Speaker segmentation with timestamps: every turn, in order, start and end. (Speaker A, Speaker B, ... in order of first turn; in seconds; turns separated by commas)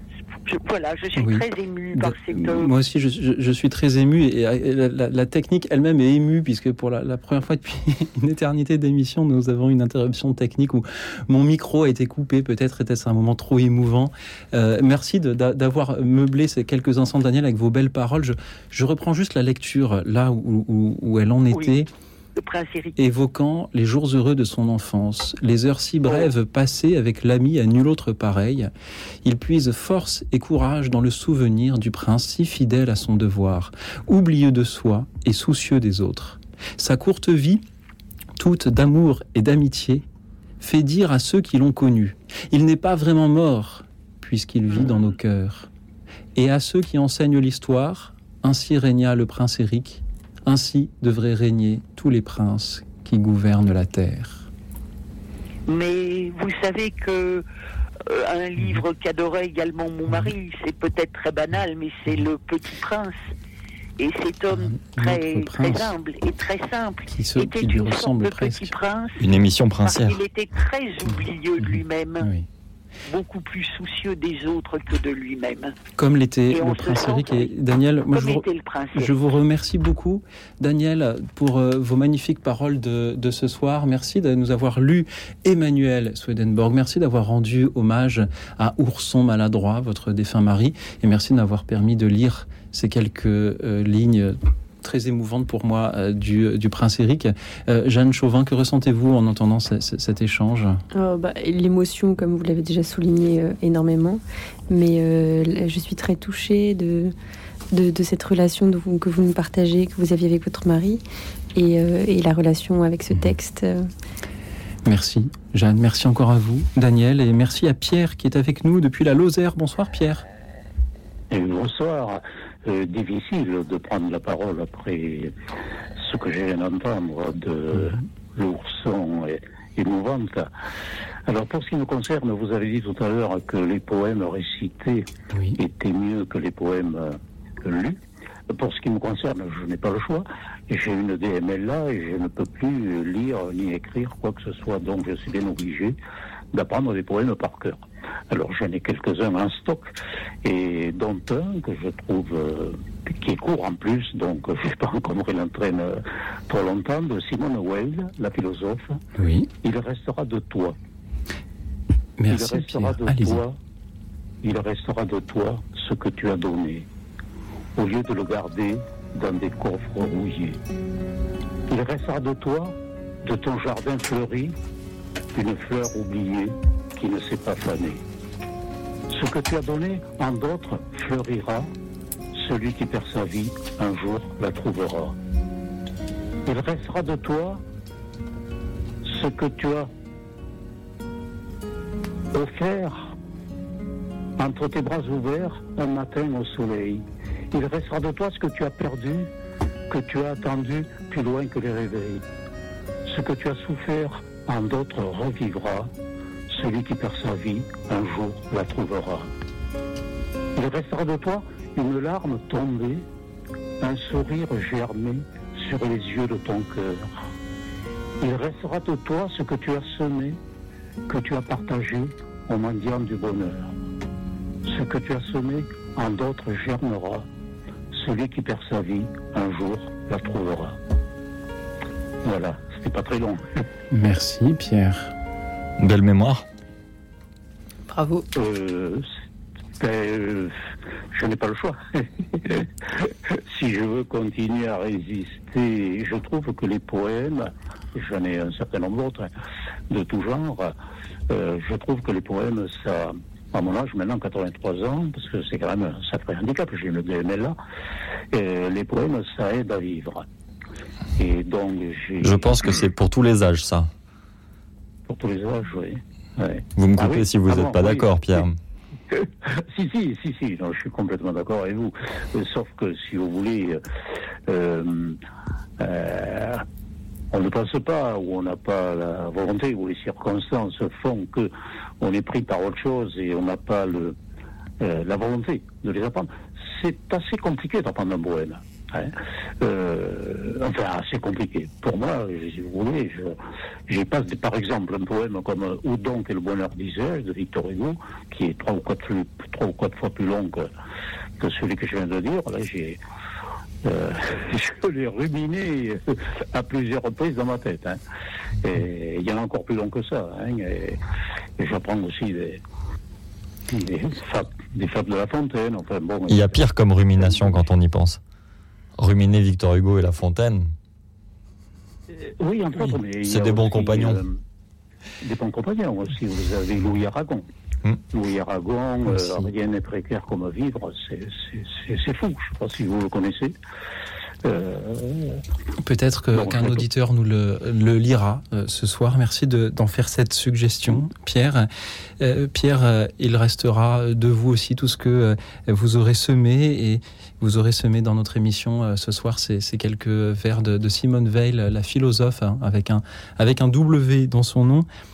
Speaker A: 0.5-2.7, Speaker B: 1.1-21.9, Speaker A: 21.5-21.8, Speaker A: 22.4-22.9, Speaker B: 23.0-28.7, Speaker B: 29.2-37.6, Speaker B: 38.4-40.0, Speaker B: 40.6-45.7, Speaker B: 46.3-54.5, Speaker A: 55.7-57.4, Speaker A: 58.1-63.1, Speaker A: 64.0-72.3, Speaker B: 64.5-65.9, Speaker B: 67.1-68.7, Speaker C: 69.2-70.2, Speaker B: 72.2-72.5, Speaker A: 73.1-75.7, Speaker B: 76.0-78.4, Speaker A: 76.5-77.5, Speaker A: 78.1-79.2, Speaker B: 78.9-100.8, Speaker D: 100.9-107.1, Speaker D: 107.7-111.0, Speaker D: 111.5-113.9, Speaker B: 114.8-120.2, Speaker E: 121.3-125.3, Speaker E: 126.0-130.5, Speaker B: 127.7-128.0, Speaker E: 131.3-138.0, Speaker B: 135.3-135.6, Speaker E: 138.5-146.0, Speaker E: 146.5-149.9, Speaker E: 150.4-159.0, Speaker B: 159.2-159.5, Speaker E: 159.6-160.8, Speaker B: 162.2-163.4, Speaker E: 162.3-163.6, Speaker E: 164.4-166.9, Speaker E: 167.8-170.6, Speaker E: 171.7-174.6, Speaker E: 175.3-178.0, Speaker E: 179.1-181.7, Speaker E: 182.3-185.2, Speaker E: 186.4-187.6, Speaker E: 189.0-189.9, Speaker E: 192.3-193.1, Speaker E: 194.4-199.3, Speaker E: 199.9-202.2, Speaker E: 203.1-205.9, Speaker E: 206.5-209.3, Speaker E: 210.6-213.1, Speaker E: 213.8-217.1, Speaker E: 218.2-220.4, Speaker E: 221.1-223.7, Speaker E: 224.7-227.3, Speaker E: 227.9-230.8, Speaker E: 232.2-233.6, Speaker B: 233.9-235.1, Speaker C: 235.8-236.4, Speaker E: 238.3-239.1, Speaker E: 239.8-240.5, Speaker E: 241.1-249.3, Speaker E: 249.9-250.7, Speaker E: 251.3-257.6, Speaker E: 258.3-260.2, Speaker E: 261.2-262.9, Speaker C: 262.2-263.9, Speaker E: 265.1-268.4, Speaker C: 266.8-268.6, Speaker E: 269.1-273.8, Speaker E: 274.5-275.2, Speaker E: 275.8-276.6, Speaker E: 277.3-284.2, Speaker E: 284.8-293.4, Speaker E: 293.9-300.7, Speaker E: 301.4-303.0, Speaker E: 303.8-308.0, Speaker E: 308.6-311.0, Speaker E: 311.6-312.6, Speaker E: 313.7-317.6, Speaker C: 316.3-318.2, Speaker C: 319.0-320.7, Speaker E: 322.1-324.4, Speaker C: 323.2-324.2, Speaker E: 325.2-327.4, Speaker E: 328.1-333.5, Speaker B: 329.0-329.5, Speaker E: 334.4-335.4, Speaker B: 335.8-354.9, Speaker E: 336.3-336.8